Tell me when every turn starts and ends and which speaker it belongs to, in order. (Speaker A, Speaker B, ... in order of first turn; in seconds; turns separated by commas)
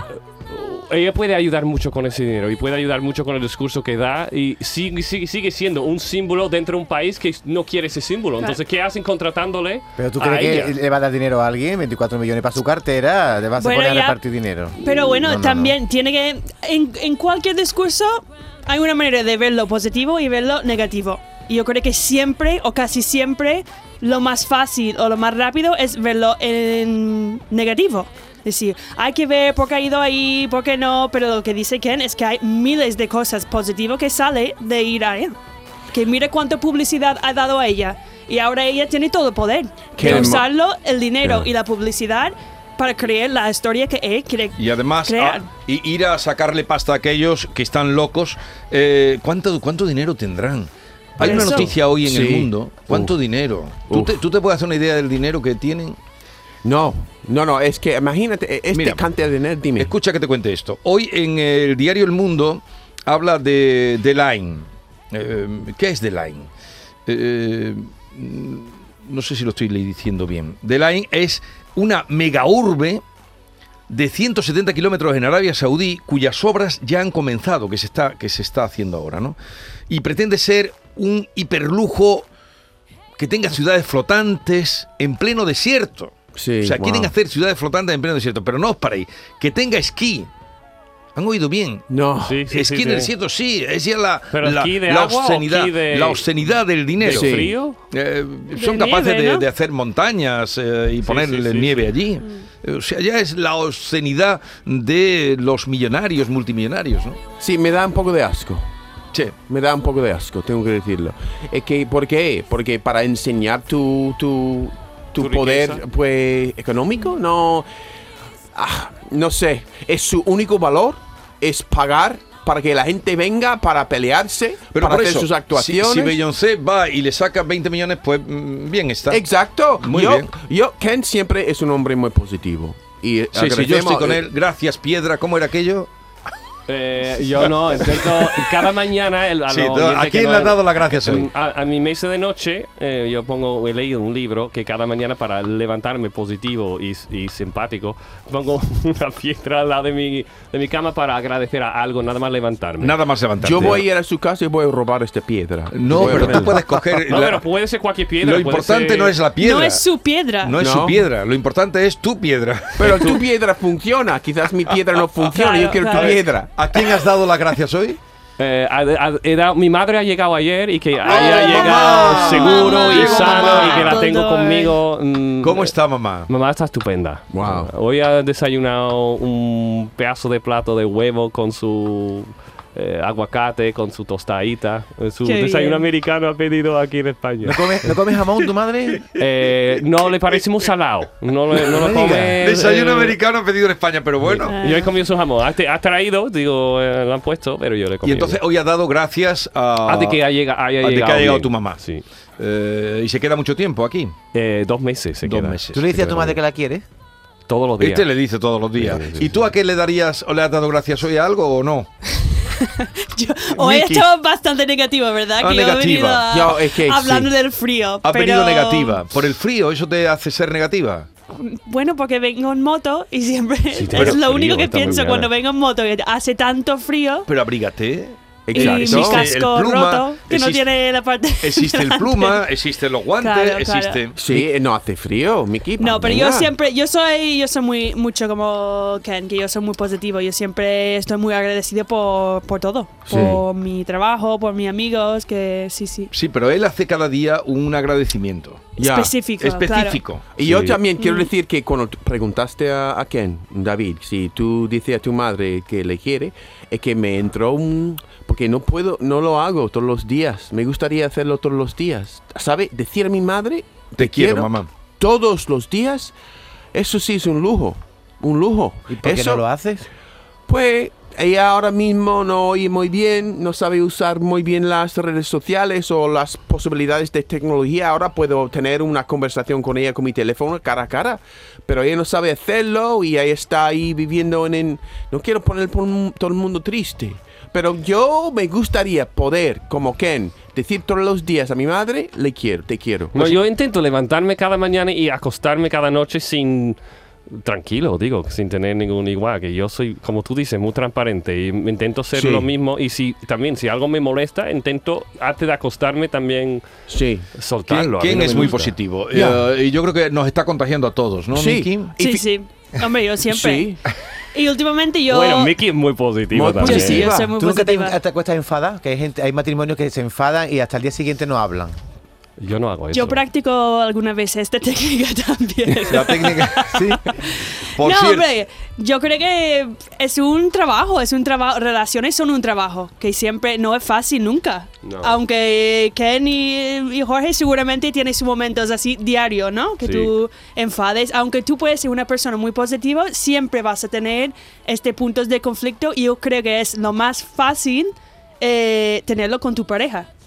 Speaker A: 0.5-10.8, Speaker B: 10.0-15.8, Speaker C: 13.6-14.2, Speaker C: 14.8-35.4, Speaker C: 35.9-45.5, Speaker D: 40.0-40.5, Speaker E: 40.0-40.3, Speaker E: 44.6-56.0, Speaker C: 51.2-51.7, Speaker D: 51.2-53.1, Speaker D: 53.9-54.2, Speaker D: 56.6-59.9, Speaker E: 58.7-59.1, Speaker E: 59.8-66.5, Speaker E: 67.1-73.0, Speaker E: 73.9-79.4, Speaker E: 79.9-82.3, Speaker E: 83.2-90.3, Speaker D: 86.4-87.1, Speaker E: 91.2-91.9, Speaker D: 91.9-92.4, Speaker A: 92.2-93.1, Speaker E: 92.5-107.2, Speaker A: 94.3-96.2, Speaker A: 97.0-97.8, Speaker D: 97.0-97.5, Speaker C: 98.5-99.5, Speaker A: 101.0-101.9, Speaker D: 107.4-108.7, Speaker D: 109.5-117.7, Speaker A: 115.2-115.8, Speaker D: 118.5-126.2, Speaker E: 124.7-129.2, Speaker D: 129.1-134.2, Speaker E: 129.8-130.3, Speaker E: 133.3-135.9, Speaker A: 136.7-153.0, Speaker E: 137.9-138.5, Speaker E: 139.5-141.3, Speaker E: 152.8-153.8, Speaker D: 153.4-156.7, Speaker E: 155.7-157.5, Speaker A: 156.0-159.2, Speaker E: 158.2-159.8, Speaker C: 159.4-160.6, Speaker E: 160.4-163.2, Speaker D: 160.6-161.0, Speaker D: 162.8-166.9, Speaker C: 165.3-166.2, Speaker E: 165.8-168.0, Speaker A: 168.4-175.7, Speaker E: 171.1-174.0, Speaker C: 171.1-174.7, Speaker E: 175.4-176.3, Speaker A: 176.3-187.9, Speaker D: 177.3-177.7, Speaker C: 185.2-185.8, Speaker B: 187.4-189.1, Speaker A: 189.2-193.2, Speaker B: 191.7-192.4, Speaker E: 192.4-194.5, Speaker A: 194.2-198.4, Speaker C: 194.4-194.9, Speaker E: 198.0-200.2, Speaker A: 199.9-202.0, Speaker E: 200.8-201.8, Speaker E: 202.4-204.2, Speaker A: 204.3-206.4, Speaker E: 205.2-205.9, Speaker B: 205.7-206.8, Speaker A: 207.5-208.1, Speaker E: 207.8-211.9, Speaker A: 208.8-209.3, Speaker C: 212.5-219.0, Speaker D: 213.6-214.0, Speaker E: 215.4-216.3, Speaker D: 216.3-217.3, Speaker E: 218.0-221.1, Speaker C: 221.4-227.3, Speaker A: 223.7-225.3, Speaker E: 223.9-224.2, Speaker E: 227.3-230.7, Speaker D: 228.5-229.3, Speaker C: 228.5-232.4, Speaker E: 231.4-234.4, Speaker C: 233.2-234.0, Speaker D: 234.2-236.5, Speaker C: 235.8-246.1, Speaker D: 243.1-243.4, Speaker E: 246.1-248.7, Speaker C: 248.8-250.0, Speaker D: 248.8-249.2, Speaker E: 249.4-250.8, Speaker D: 250.4-266.1, Speaker A: 250.4-250.7, Speaker C: 251.0-251.3, Speaker E: 264.0-264.7, Speaker D: 266.7-269.4, Speaker B: 268.9-269.9, Speaker D: 270.5-293.4, Speaker A: 293.1-306.6, Speaker D: 302.1-302.5, Speaker D: 306.9-307.3, Speaker A: 307.4-308.7, Speaker E: 307.7-311.9, Speaker D: 308.1-309.4, Speaker D: 311.3-312.3, Speaker C: 312.0-313.7, Speaker D: 313.3-313.8, Speaker C: 314.3-315.5, Speaker A: 315.1-317.1, Speaker D: 316.3-317.3, Speaker C: 316.6-318.0, Speaker B: 317.4-321.8, Speaker A: 322.4-323.2, Speaker C: 322.9-350.1, Speaker E: 325.9-327.2, Speaker B: 326.7-327.0, Speaker E: 327.7-328.3, Speaker A: 334.8-335.2, Speaker A: 339.8-340.1